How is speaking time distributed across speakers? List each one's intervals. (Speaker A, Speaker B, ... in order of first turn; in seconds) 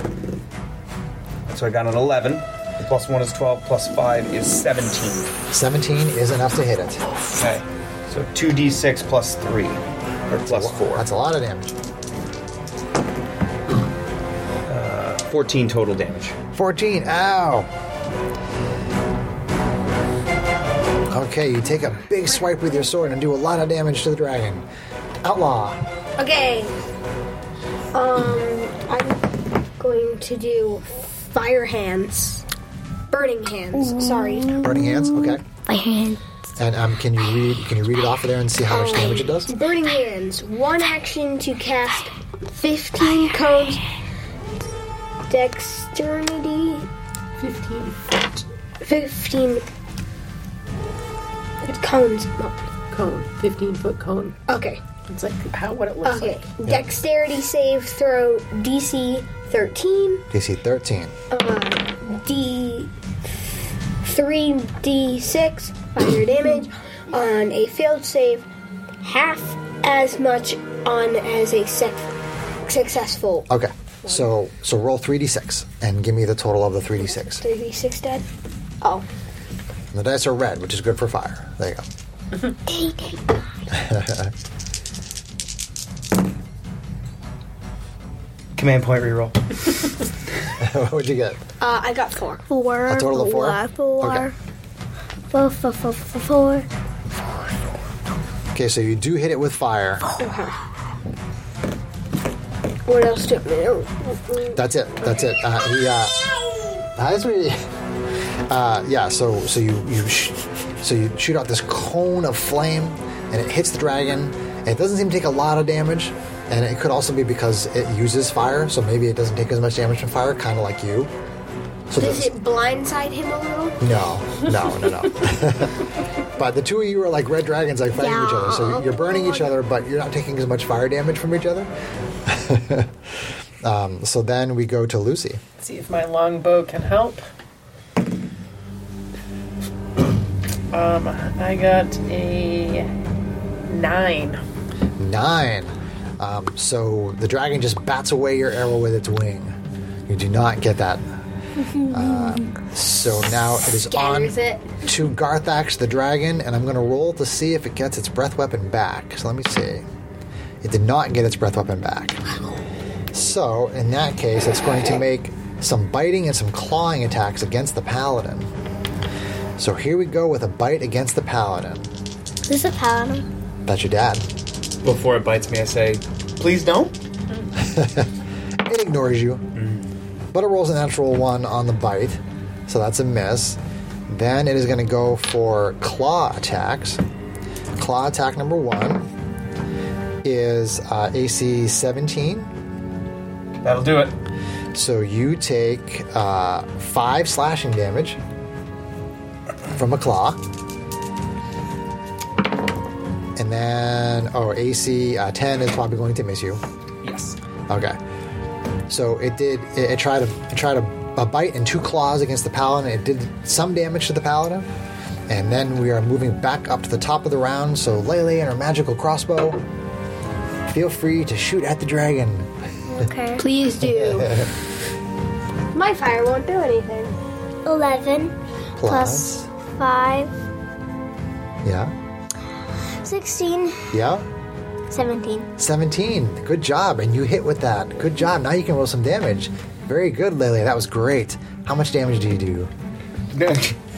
Speaker A: 1.5-5.3, 7.3-11.1, 14.7-16.4, 88.6-89.6, 174.8-176.9, 179.6-179.9, 193.6-194.2, 207.0-207.4, 243.3-243.8
Speaker B: 5.5-7.1, 10.5-11.7, 16.5-17.7, 21.1-24.6, 25.2-25.8, 34.6-35.4, 36.6-39.5, 60.3-61.1, 73.5-77.4, 79.9-81.9, 83.7-84.3, 90.6-91.4, 92.9-94.3, 98.5-100.0, 104.5-106.2, 107.0-107.6, 108.5-121.1, 121.9-122.3, 123.8-131.7, 132.2-133.0, 133.6-135.4, 145.0-149.6, 150.1-151.0, 151.9-159.9, 160.6-162.2, 163.1-168.5, 169.6-171.9, 173.7-174.3, 177.6-178.1, 178.7-179.4, 180.3-187.0, 187.8-189.1, 190.2-192.5, 194.7-198.2, 199.7-200.4, 203.4-206.6, 207.7-208.0, 208.9-214.7, 215.3-219.6, 220.7-222.5, 223.8-224.5, 228.8-229.5, 231.6-231.9, 233.9-234.3, 235.6-242.7
Speaker C: 26.2-26.8, 27.9-29.2, 29.8-32.4, 33.1-34.6, 38.7-43.8, 45.3-46.9, 48.8-49.6, 51.6-52.6, 54.5-54.8, 56.0-60.2, 61.3-62.9, 64.0-68.5, 69.0-72.1, 72.7-73.5, 77.4-78.2, 78.8-79.1, 91.6-92.4, 100.2-100.6, 102.9-104.6, 122.0-123.8, 153.9-154.7, 223.4-224.3, 225.7-227.2
Speaker D: 33.8-36.2, 43.0-43.4, 82.7-83.4, 92.5-94.3, 95.3-96.7, 128.0-129.3, 151.7-152.5, 172.5-173.3, 222.9-223.5, 227.7-230.3, 233.0-233.9, 234.9-235.5
Speaker E: 47.4-48.0, 52.9-54.4, 55.1-56.4, 135.6-137.2, 140.7-142.9, 143.7-144.4